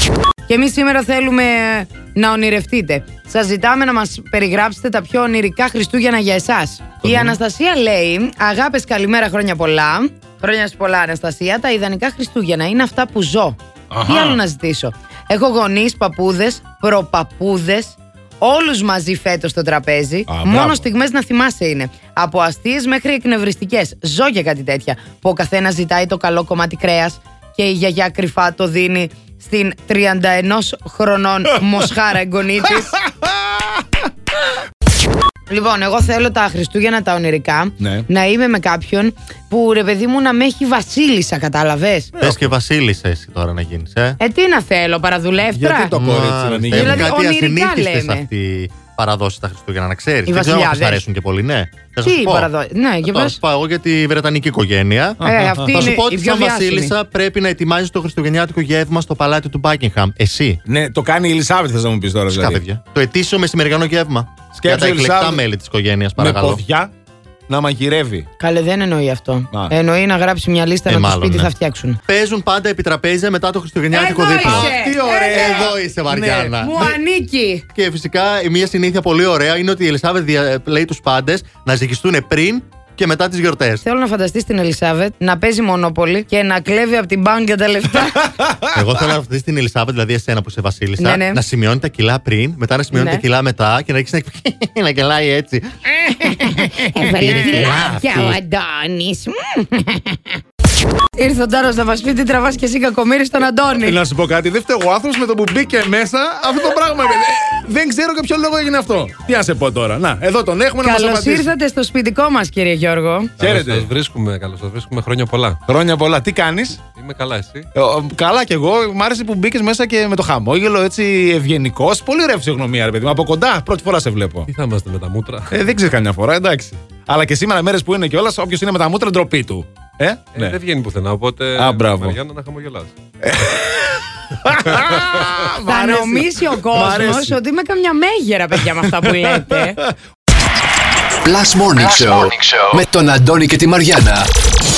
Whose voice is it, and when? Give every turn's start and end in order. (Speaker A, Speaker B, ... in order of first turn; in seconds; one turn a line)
Speaker A: 0.5-33.0
Speaker B: 7.0-7.4
Speaker B: 13.9-14.4
Speaker B: 20.3-20.9
Speaker B: 32.8-33.8
Speaker A: 35.5-42.1
Speaker B: 37.8-38.1
Speaker B: 42.2-42.5
Speaker C: 42.2-44.2
Speaker A: 44.2-45.9
Speaker B: 45.5-47.1
Speaker C: 46.0-52.5
Speaker A: 46.7-48.3
Speaker A: 50.3-51.0
Speaker A: 52.0-53.4
Speaker C: 53.0-60.6
Speaker B: 55.2-55.7
Speaker A: 55.2-56.9
Speaker B: 60.7-62.6
Speaker C: 62.3-66.6
Speaker B: 64.5-65.4
Speaker B: 66.2-66.9
Speaker B: 67.5-68.3
Speaker A: 68.4-72.0
Speaker C: 70.9-71.5
Speaker C: 72.1-77.0
Speaker A: 73.9-75.7
Speaker B: 74.4-76.8
Speaker A: 76.6-77.6
Speaker C: 77.7-83.8
Speaker A: 83.8-88.3
Speaker C: 88.7-98.4
Speaker A: 91.0-91.4
Speaker A: 92.9-93.2
Speaker A: 96.2-100.3
Speaker A: 101.2-104.0
Speaker B: 103.8-111.5
Speaker A: 110.8-113.3
Speaker B: 113.4-113.9
Speaker D: 113.4-114.0
Speaker E: 113.4-115.6
Speaker B: 115.6-116.8
Speaker E: 117.0-117.7
Speaker B: 117.7-124.5
Speaker E: 124.5-125.5
Speaker B: 125.5-130.6
Speaker E: 130.5-132.9
Speaker B: 131.6-132.2
Speaker B: 133.2-137.4
Speaker A: 135.4-139.8
Speaker B: 139.2-139.9
Speaker D: 141.2-144.3